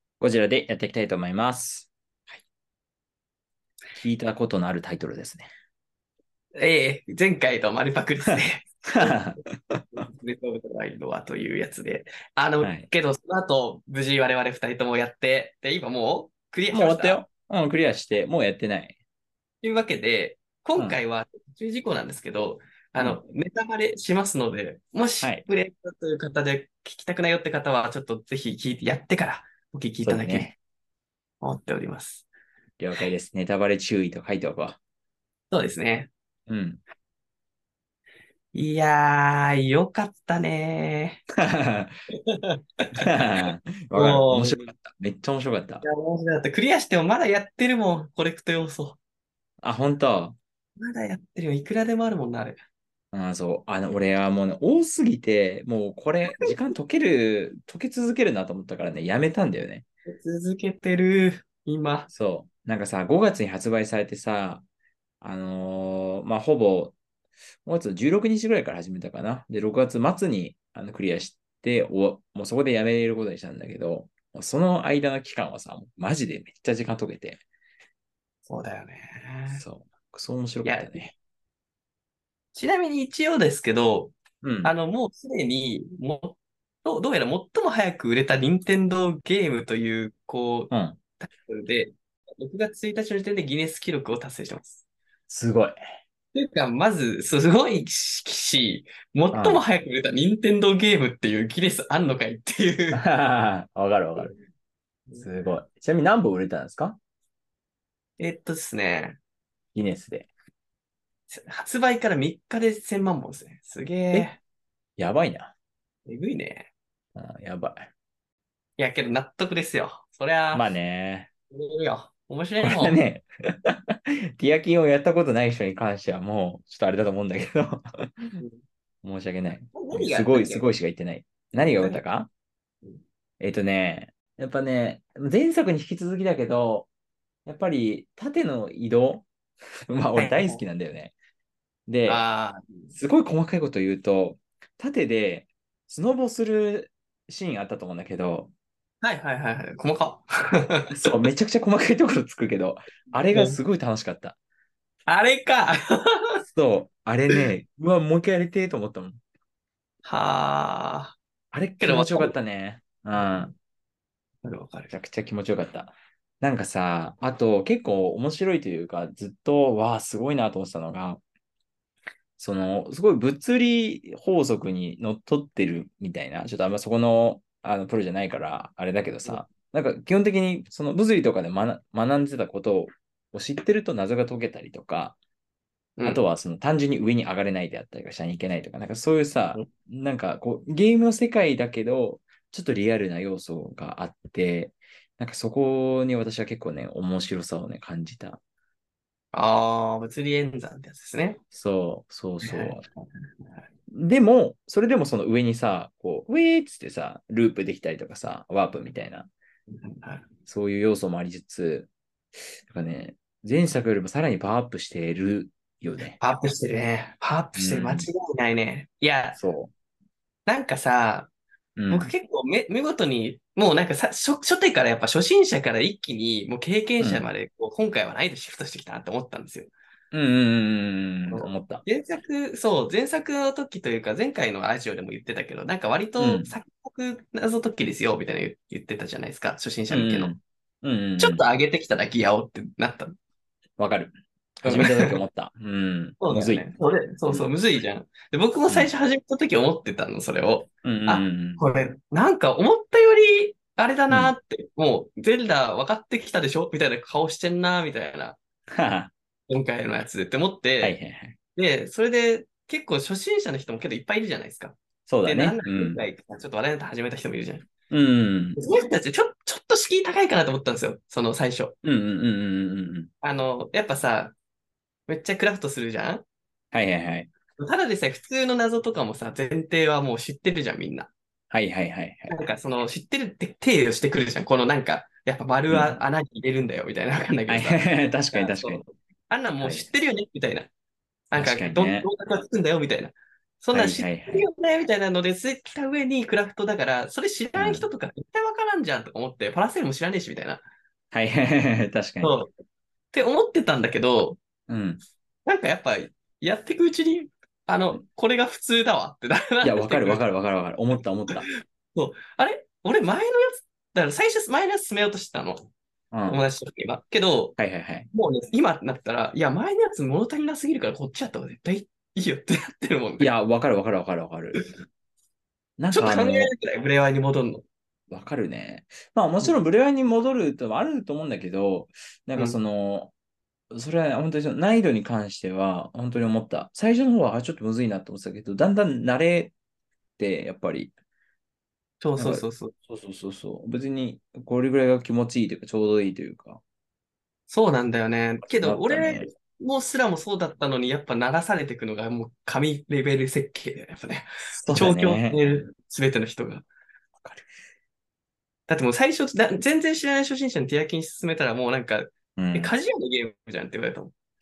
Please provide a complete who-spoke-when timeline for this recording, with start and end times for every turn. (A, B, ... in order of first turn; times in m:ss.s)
0:00.2-0:01.9 A
0:03.9-0:05.5 A
0:06.6-0:09.2 B
0:08.9-0:10.0 A
0:09.9-0:17.2 B
0:12.6-0:12.9 A
0:16.7-0:18.9 A
0:19.6-0:30.5 B
0:30.0-0:30.6 A
0:31.4-0:32.2 B
0:32.8-0:34.8 A
0:35.5-0:36.1 B
0:36.5-0:36.8 A
0:38.5-0:41.2 B
0:41.4-0:41.9 A
0:42.3-0:44.7 B
0:43.0-0:45.8 A
0:45.8-0:49.0 B
0:49.6-0:50.4 A
0:50.8-0:52.6 B
0:53.1-0:59.8 A
1:00.1-1:02.1 B
1:02.1-1:04.6 A
1:05.2-1:07.0 A
1:07.6-1:17.4 A
1:18.5-1:19.6 B
1:19.5-1:21.1 A
1:20.6-1:21.1 B
1:22.5-1:34.8 B
1:24.4-1:24.7 A
1:30.7-1:31.0 A
1:35.3-1:35.8 A
1:36.3-1:43.0 B
1:39.3-1:39.6 A
1:42.9-1:44.3 A
1:45.2-1:47.0 A
1:48.2-1:49.2 B
1:49.7-1:50.3 A
1:51.3-1:54.4 B
1:55.0-1:55.5 A
1:56.0-1:56.7 B
1:57.1-1:57.9 A
1:58.8-2:00.7 B
2:00.5-2:01.3 A
2:01.5-2:03.0 B
2:02.6-2:08.4 A
2:09.0-2:12.3 A
2:09.7-2:10.6 B
2:13.4-2:16.9 A
2:17.4-2:19.3 A
2:19.9-2:21.1 A
2:20.2-2:20.6 B
2:21.9-2:22.2 A
2:22.1-2:22.9 B
2:22.9-2:28.5 A
2:29.0-2:30.9 B
2:30.9-2:34.4 A
2:33.3-2:33.6 B
2:35.1-2:36.4 B
2:36.5-2:39.2 A
2:40.0-2:41.2 B
2:41.5-2:43.5 A
2:41.8-2:42.3 B
2:43.1-2:43.5 B
2:44.4-2:45.0 B
2:44.9-2:51.2 A
2:52.4-3:05.2 A
3:06.0-3:06.2 B
3:06.0-3:18.4 A
3:19.3-3:21.4 B
3:21.5-3:22.8 A
3:22.4-3:23.2 B
3:23.9-3:29.3 A
3:29.7-3:30.3 B
3:30.5-3:31.9 A
3:32.6-3:36.2 A
3:36.2-3:39.4 B
3:37.6-3:38.1 A
3:39.3-3:39.7 A
3:40.5-3:41.3 B
3:41.8-3:42.1 A
3:41.9-3:49.7 B
3:47.0-3:47.3 A
3:50.1-3:51.8 A
3:51.3-4:00.4 B
3:56.2-3:56.5 A
3:59.9-4:01.4 A
4:01.2-4:03.1 B
4:03.8-4:06.7 A
4:04.6-4:05.2 B
4:06.2-4:18.4 B
4:10.8-4:11.6 A
4:14.1-4:14.3 A
4:18.7-4:19.1 A
4:19.5-4:21.0 B
4:20.8-4:21.4 A
4:21.6-4:27.7 B
4:25.1-4:26.0 A
4:27.9-4:28.6 A
4:28.6-4:31.7 B
4:31.8-4:33.1 A
4:33.2-4:34.3 B
4:35.1-4:36.2 B
4:36.7-4:37.3 A
4:37.6-4:41.1 B
4:41.5-4:42.3 A
4:42.3-4:47.8 B
4:45.7-4:46.0 A
4:47.5-4:48.9 A
4:48.3-4:50.7 B
4:49.6-4:49.9 A
4:51.3-5:00.6 B
4:51.3-4:52.1 A
4:53.7-4:54.5 A
4:57.6-4:57.9 A
5:01.1-5:02.4 A
5:02.2-5:02.5 B
5:03.1-5:04.4 B
5:04.7-5:05.0 A
5:05.4-5:10.2 B
5:09.6-5:11.5 A
5:11.3-5:15.7 B
5:16.1-5:16.4 A
5:16.3-5:17.6 B
5:17.6-5:18.1 A
5:18.1-5:23.3 B
5:23.2-5:24.7 A
5:25.8-5:26.5 A
5:25.9-5:27.6 B
5:28.1-5:33.1 A
5:33.7-5:39.5 A
5:40.2-5:40.9 A
5:42.0-5:42.7 B
5:42.2-5:46.6 A
5:47.5-5:56.6 B
5:48.4-5:49.3 A
5:54.6-5:55.6 A
5:58.7-6:04.1 B
6:02.4-6:02.7 A